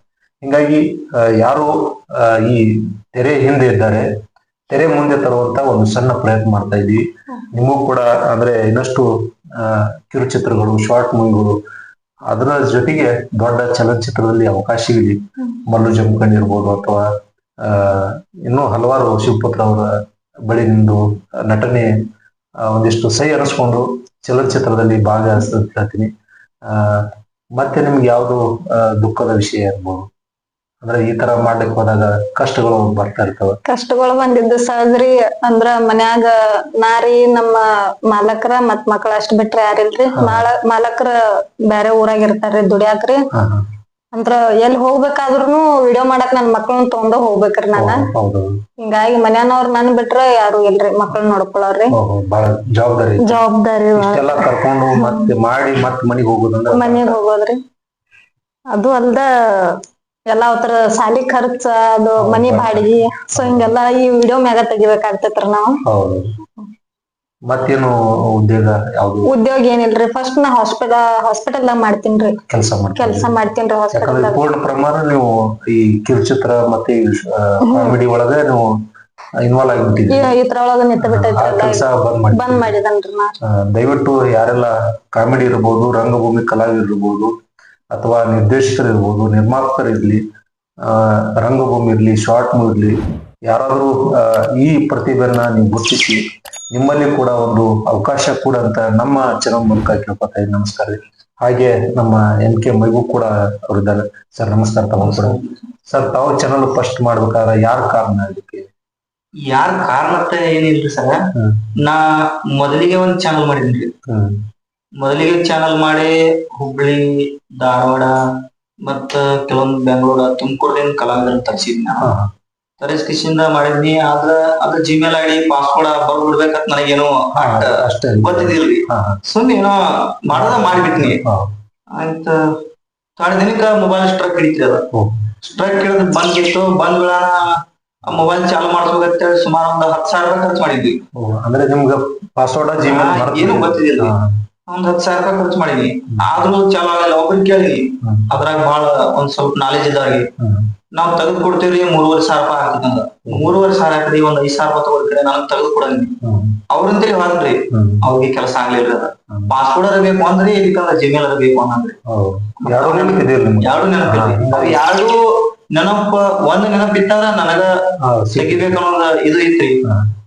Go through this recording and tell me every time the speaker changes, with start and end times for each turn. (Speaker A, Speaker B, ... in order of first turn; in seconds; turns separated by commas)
Speaker A: 0.4-4.0, Speaker A: 4.7-11.6, Speaker A: 12.3-17.1, Speaker A: 17.6-19.9, Speaker A: 20.5-21.9, Speaker A: 22.6-26.1, Speaker A: 26.6-30.1, Speaker A: 30.8-33.6, Speaker B: 33.6-43.2, Speaker A: 40.1-40.5, Speaker A: 43.3-43.6, Speaker B: 44.1-48.0, Speaker A: 47.7-48.5, Speaker B: 48.8-52.0, Speaker A: 51.9-53.4, Speaker B: 53.2-55.3, Speaker A: 54.0-57.1, Speaker B: 56.7-57.6, Speaker B: 58.7-65.8, Speaker A: 62.2-63.7, Speaker A: 65.8-66.3, Speaker A: 67.5-69.3, Speaker B: 69.2-72.4, Speaker A: 72.5-73.3, Speaker B: 73.0-74.4, Speaker A: 73.9-78.7, Speaker B: 77.6-78.0, Speaker A: 79.4-80.3, Speaker B: 80.1-83.3, Speaker A: 81.0-82.7, Speaker A: 83.6-87.3, Speaker A: 87.9-90.2, Speaker A: 90.8-105.3, Speaker C: 105.0-105.5, Speaker A: 105.9-108.7, Speaker C: 109.5-111.2, Speaker A: 111.3-111.7, Speaker C: 111.8-113.9, Speaker A: 114.0-114.4, Speaker C: 115.0-118.1, Speaker C: 118.8-122.1, Speaker A: 122.0-122.3, Speaker C: 122.8-131.2, Speaker A: 127.4-129.2, Speaker A: 130.3-131.5, Speaker C: 131.9-132.4, Speaker C: 133.2-134.8, Speaker A: 134.9-135.3, Speaker C: 135.4-137.5, Speaker C: 138.0-141.0, Speaker A: 141.2-144.3, Speaker C: 142.9-144.1, Speaker C: 144.7-150.3, Speaker A: 148.0-148.3, Speaker A: 150.4-150.7, Speaker C: 150.9-156.1, Speaker A: 153.3-153.6, Speaker A: 156.2-156.6, Speaker C: 156.7-161.9, Speaker A: 157.7-158.1, Speaker A: 162.1-164.8, Speaker C: 162.6-165.2, Speaker C: 165.7-167.7, Speaker A: 168.0-168.8, Speaker C: 168.4-169.8